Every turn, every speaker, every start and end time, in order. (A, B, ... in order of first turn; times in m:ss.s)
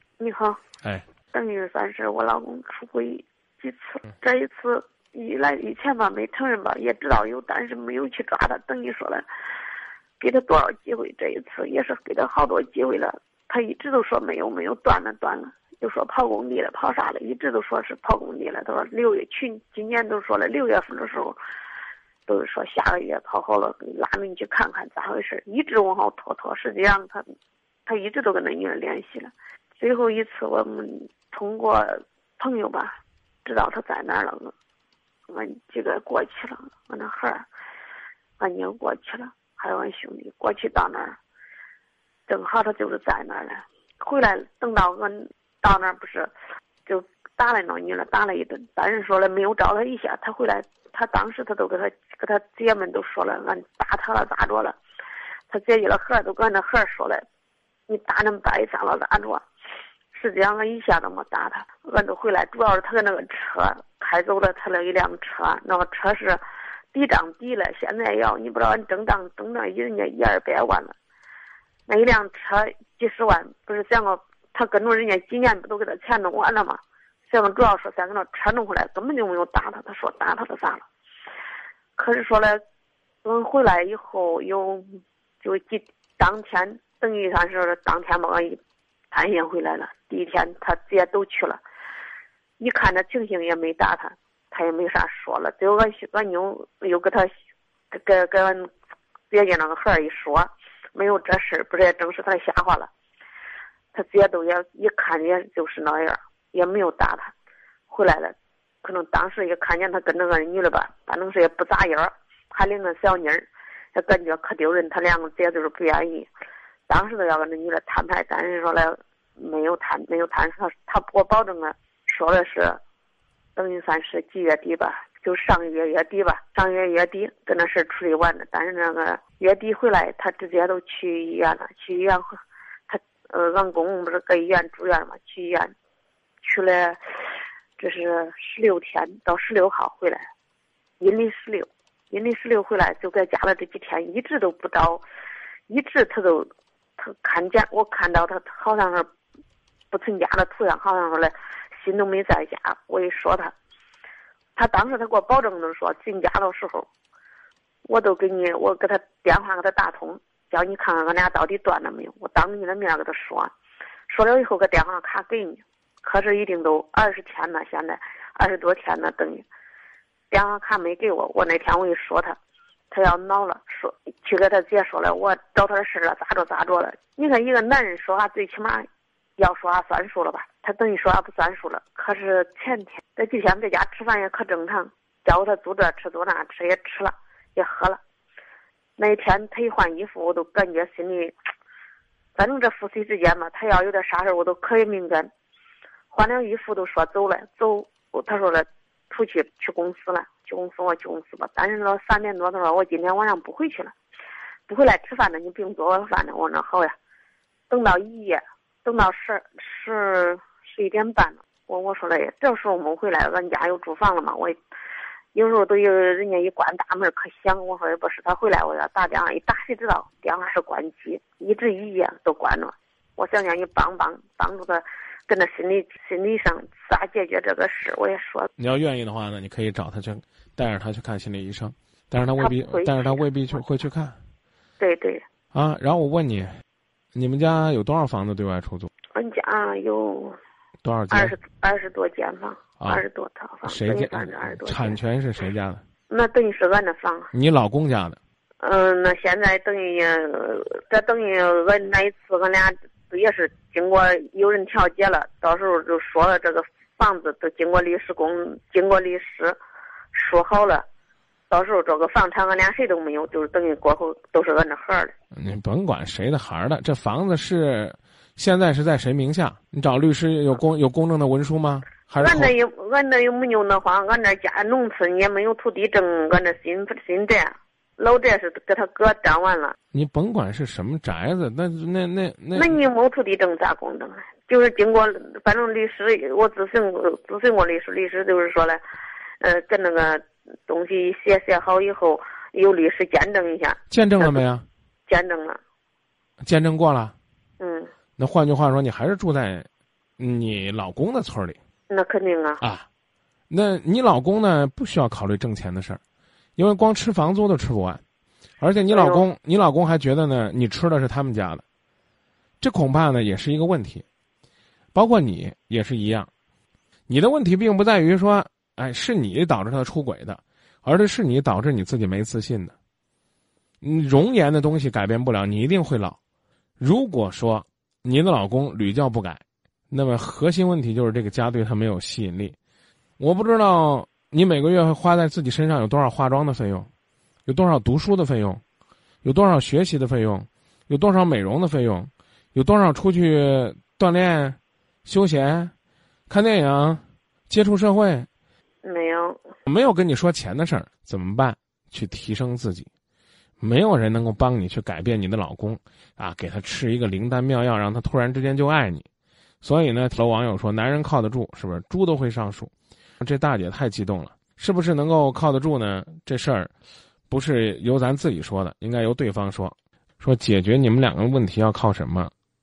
0:00.2-0:00.6 A
0:01.3-0:09.3 A
0:10.2-0:21.4 A
0:22.3-0:27.2 A
0:27.9-0:34.5 A
0:35.3-0:37.5 A
0:38.4-0:41.2 A
0:42.3-0:46.3 A
0:46.9-0:54.8 A
0:55.5-0:57.2 A
0:57.9-0:59.4 A
1:00.1-1:06.4 A
1:06.9-1:11.0 A
1:11.9-1:20.9 A
1:22.0-1:22.6 A
1:23.2-1:28.6 A
1:29.1-1:31.6 A
1:32.6-1:37.3 A
1:37.9-1:38.7 A
1:39.3-1:42.9 A
1:43.9-1:47.3 A
1:47.9-1:56.3 A
1:56.9-2:02.8 A
2:03.6-2:12.4 A
2:12.9-2:15.7 A
2:16.4-2:17.0 A
2:17.8-2:20.2 A
2:21.0-2:25.0 A
2:25.7-2:29.1 A
2:29.9-2:33.5 A
2:34.6-2:36.9 A
2:37.9-2:43.5 A
2:44.1-2:49.4 A
2:50.3-2:52.4 A
2:52.9-3:08.0 A
3:09.0-3:11.3 A
3:12.4-3:15.3 A
3:16.1-3:23.9 A
3:24.7-3:26.9 A
3:27.7-3:34.6 A
3:35.3-3:48.5 A
3:48.6-3:54.2 B
3:52.4-3:53.2 A
3:54.8-3:55.2 A
3:55.5-3:56.5 B
3:57.2-3:58.9 B
3:59.1-4:00.4 A
4:00.8-4:01.3 B
4:01.1-4:05.0 A
4:03.7-4:05.8 B
4:06.1-4:07.3 A
4:07.3-4:08.2 B
4:08.6-4:19.6 A
4:20.1-4:20.9 A
4:21.5-4:25.1 A
4:25.4-4:32.5 B
4:32.2-4:39.8 A
4:39.9-4:42.8 B
4:42.5-4:48.8 A
4:49.4-4:54.4 A
4:53.9-4:54.6 B
4:55.1-4:55.6 A
4:56.4-4:57.1 B
4:57.6-4:57.9 A
4:58.2-4:59.7 B
5:00.2-5:01.6 B
5:01.9-5:02.6 A
5:02.6-5:02.9 B
5:03.5-5:06.0 B
5:06.6-5:08.0 B
5:08.6-5:11.6 B
5:08.9-5:09.2 A
5:12.6-5:14.0 B
5:14.9-5:16.3 B
5:17.1-5:22.7 B
5:23.8-5:26.2 B
5:26.8-5:32.6 B
5:33.2-5:36.9 B
5:37.4-5:38.6 B
5:39.2-5:45.7 B
5:46.3-5:48.3 B
5:48.8-5:49.4 A
5:49.7-5:52.9 B
5:53.6-5:59.1 B
5:59.6-6:06.7 B
6:07.3-6:12.3 B